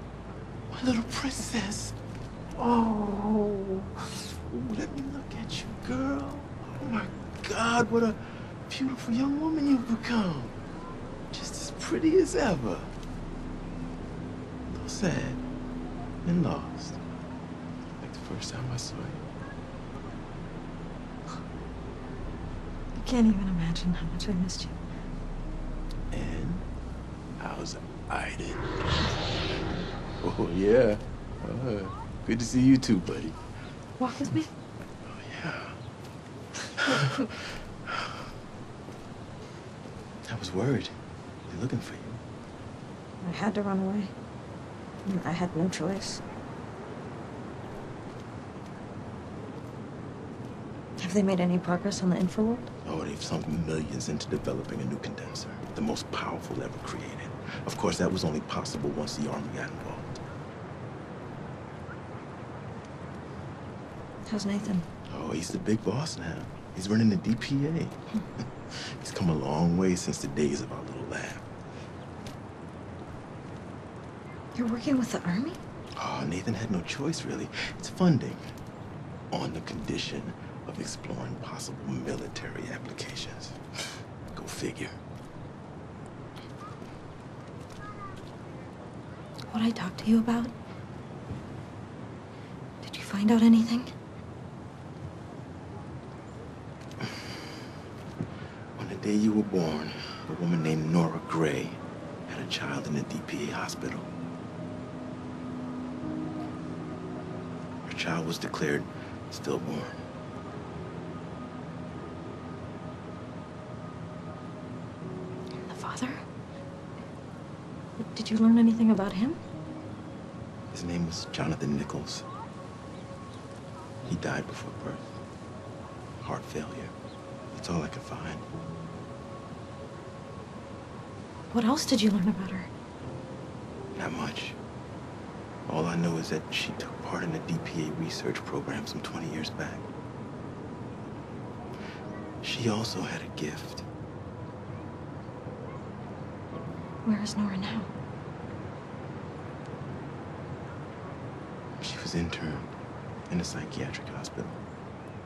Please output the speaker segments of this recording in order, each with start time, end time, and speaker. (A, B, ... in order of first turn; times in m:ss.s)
0:00.7-0:02.0 A
0:02.6-0:10.6 A
0:11.3-0:12.9 A
0:14.6-0:15.4 A
0:16.2-0:17.0 A
0:18.0-0:19.2 A
0:23.0-0:24.8 B
0:26.1-0:26.6 A
0:27.4-0:28.6 A
0:30.2-0:33.4 A
0:34.0-0:34.5 B
0:35.0-0:35.8 A
0:36.8-0:38.2 A
0:40.2-0:40.9 A
0:41.5-0:42.2 A
0:43.2-0:44.1 B
0:45.0-0:46.2 B
0:51.0-0:52.7 B
0:52.8-1:00.2 A
1:04.3-1:04.9 B
1:05.1-1:08.0 A
1:08.7-1:11.4 A
1:14.5-1:15.6 B
1:16.0-1:18.4 A
1:19.3-1:23.6 A
1:24.3-1:25.0 A
1:29.5-1:30.5 B
1:32.8-1:33.9 B
1:37.0-1:37.4 A
1:38.8-1:44.1 A
1:47.8-1:50.0 A
1:55.6-1:56.2 B
1:58.0-1:59.4 B
2:00.7-2:02.2 A
2:04.0-2:05.2 A
2:06.2-2:06.9 A
2:07.5-2:08.4 A
2:11.5-2:12.7 B
2:13.9-2:14.6 A
2:15.7-2:19.9 A
2:22.4-2:23.8 A
2:27.0-2:27.9 B
2:31.8-2:32.7 A
2:33.3-2:34.6 A